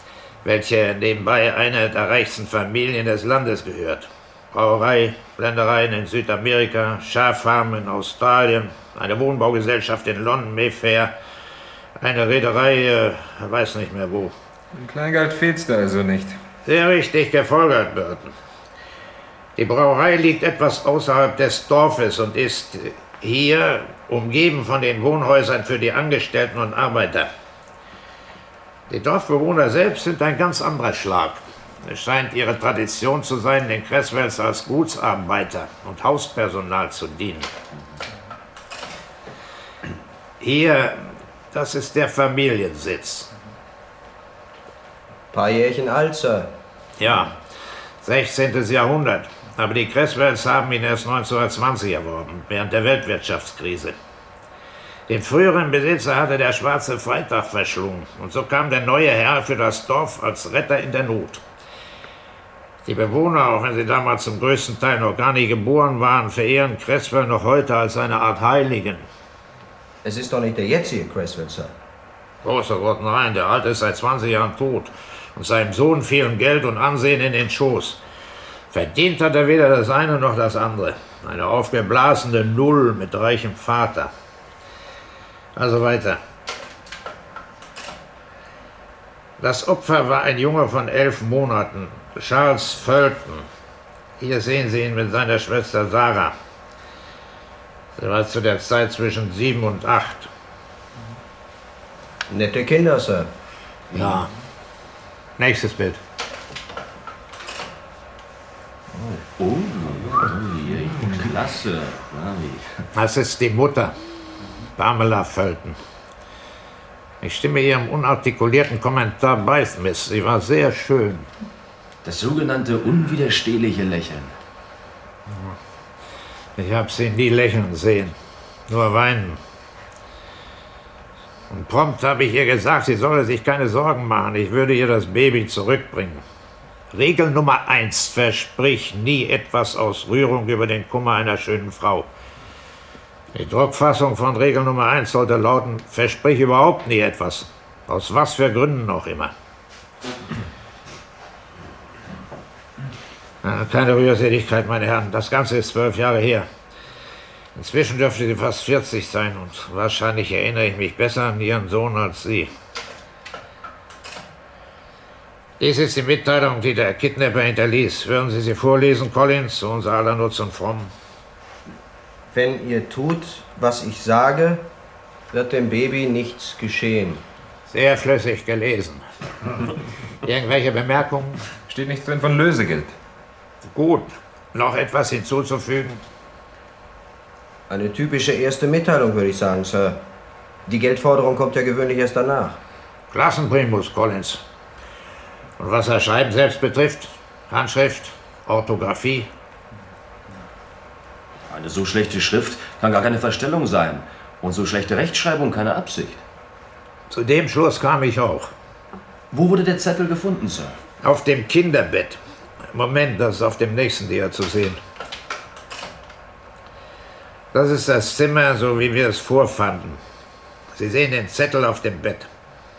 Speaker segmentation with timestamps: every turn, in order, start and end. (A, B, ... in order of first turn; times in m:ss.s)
0:00.4-0:11.1 A
0:12.0-0:14.3 A
0:14.8-0:16.4 B
0:16.6-0:18.3 A
0:19.6-0:27.3 A
0:28.9-0:37.5 A
0:40.4-0:43.3 A
0:45.3-0:46.6 C
0:47.0-0:47.4 A
0:48.0-0:54.0 A
0:55.1-1:01.4 A
1:02.8-1:09.0 A
1:10.0-1:11.7 C
1:12.4-1:18.0 A
1:18.7-1:24.1 A
1:25.6-1:26.2 A
1:29.4-1:33.5 A
1:34.2-1:36.4 A
1:38.0-1:40.3 A
1:42.3-1:43.3 C
1:43.9-1:44.3 A
1:45.4-1:46.0 A
1:49.0-1:52.7 D
1:53.0-1:54.0 A
1:54.8-1:55.8 A
1:57.2-2:01.3 A
2:02.0-2:04.3 D
2:05.3-2:05.6 A
2:06.6-2:08.2 A
2:08.7-2:09.4 A
2:11.5-2:16.2 A
2:16.9-2:22.1 A
2:23.3-2:29.3 A
2:33.4-2:36.5 A
2:37.6-2:42.5 A
2:45.6-2:50.9 A
2:52.3-2:54.6 C
2:55.3-2:57.2 C
2:57.7-2:59.0 A
3:00.2-3:01.4 A
3:01.7-3:03.0 B
3:03.6-3:06.0 A
3:07.7-3:10.0 C
3:10.7-3:12.6 C
3:13.1-3:14.4 A
3:15.6-3:19.3 A
3:21.5-3:26.2 D
3:27.1-3:28.5 A
3:29.3-3:30.8 D
3:31.0-3:32.2 A
3:32.7-3:34.8 A
3:37.5-3:40.0 A
3:40.7-3:42.3 A